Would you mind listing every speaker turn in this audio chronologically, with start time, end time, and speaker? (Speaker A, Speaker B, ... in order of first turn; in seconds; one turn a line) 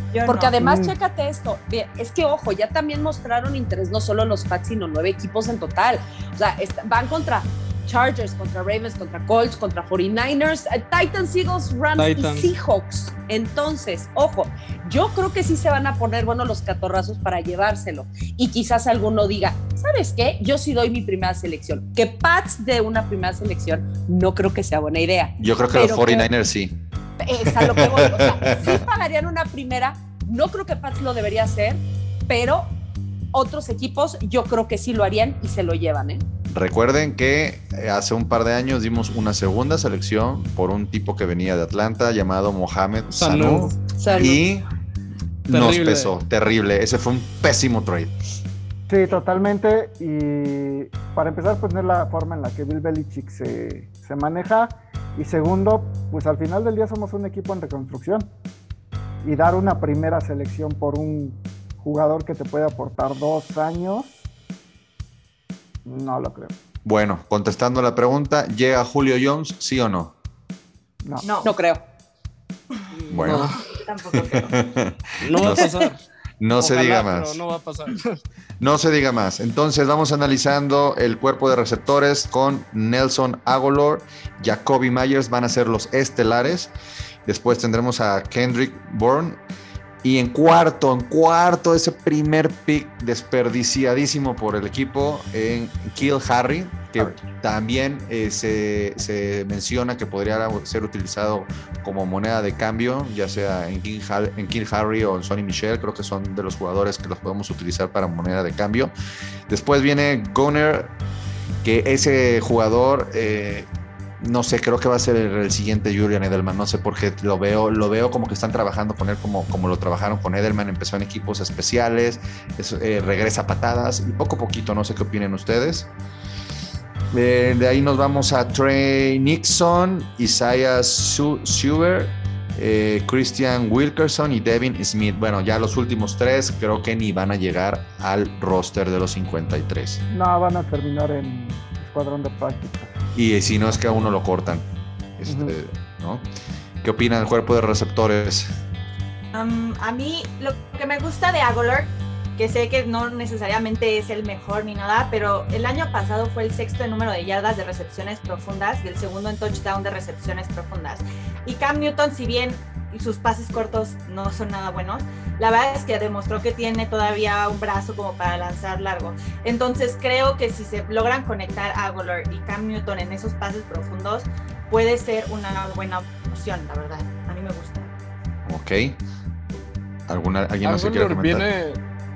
Speaker A: 0.1-0.6
Speaker B: 0.2-26.3
Speaker C: 0.6-0.9
Speaker D: 12.0-12.5
Speaker E: 25.4-26.7
Speaker B: 27.2-32.7
Speaker E: 27.4-28.8
Speaker B: 33.3-36.2
Speaker E: 36.5-44.7
Speaker D: 43.1-43.8
Speaker B: 44.0-44.4
Speaker E: 45.5-48.1
Speaker D: 45.5-46.1
Speaker C: 48.9-58.3
Speaker C: 59.2-64.2
Speaker C: 65.8-66.5
Speaker E: 66.8-70.1
Speaker A: 71.2-71.5
Speaker B: 71.4-71.8
Speaker A: 72.7-74.5
Speaker D: 72.9-73.6
Speaker E: 73.1-73.5
Speaker E: 74.1-75.7
Speaker D: 75.2-76.0
Speaker E: 76.4-77.4
Speaker D: 76.6-78.2
Speaker E: 78.6-86.7
Speaker E: 87.2-89.4
Speaker E: 90.0-108.9
Speaker E: 109.5-110.9
Speaker E: 111.6-113.7
Speaker E: 114.2-125.9
Speaker E: 127.1-140.0
Speaker C: 140.1-143.0
Speaker E: 143.1-144.7
Speaker E: 145.2-146.3
Speaker C: 145.3-145.5
Speaker E: 146.8-148.5
Speaker A: 149.3-177.9
Speaker E: 178.4-179.0
Speaker E: 180.1-181.4
Speaker D: 180.6-181.8